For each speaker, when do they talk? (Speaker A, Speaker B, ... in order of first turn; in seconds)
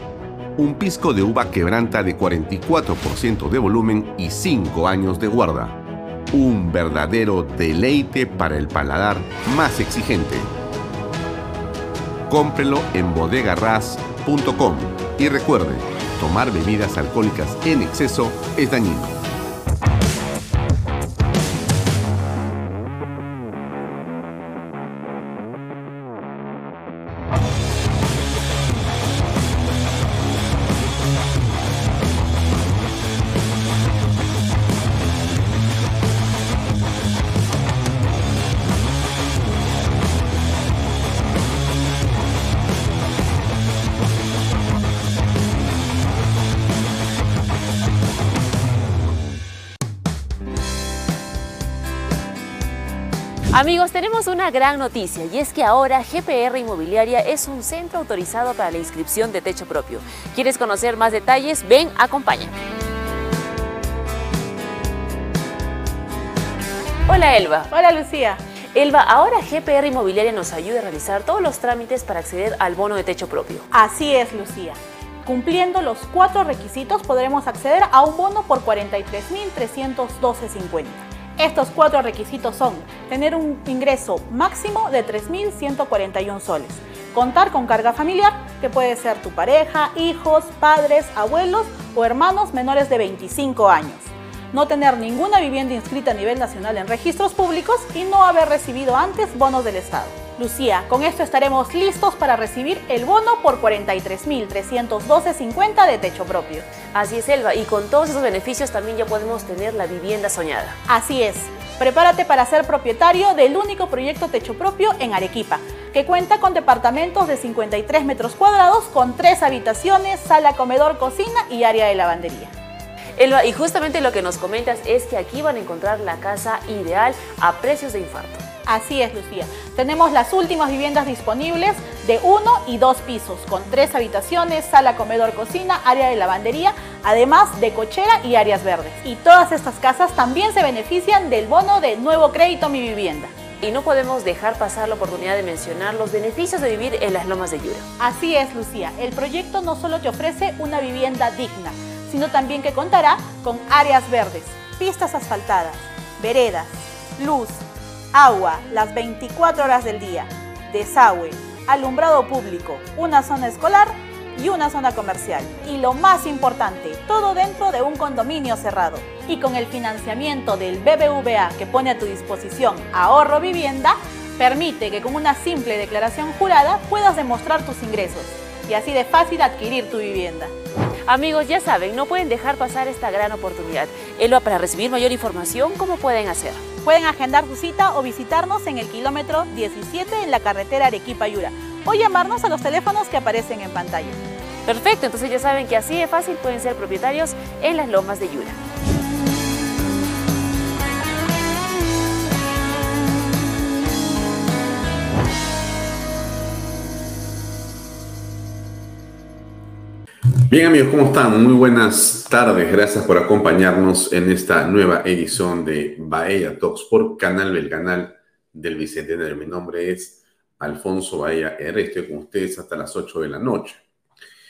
Speaker A: 0.6-5.8, 6.3-10.5, 12.3-19.2, 210.5-223.8
Speaker B: 53.5-62.5, 67.1-67.7, 68.7-73.7, 106.9-110.8, 123.2-128.4, 143.6-147.9, 181.1-186.6, 194.7-198.6
Speaker C: 67.7-68.4, 73.7-106.7, 110.9-122.5, 128.7-143.3, 148.0-157.6, 158.1-180.5, 186.8-194.2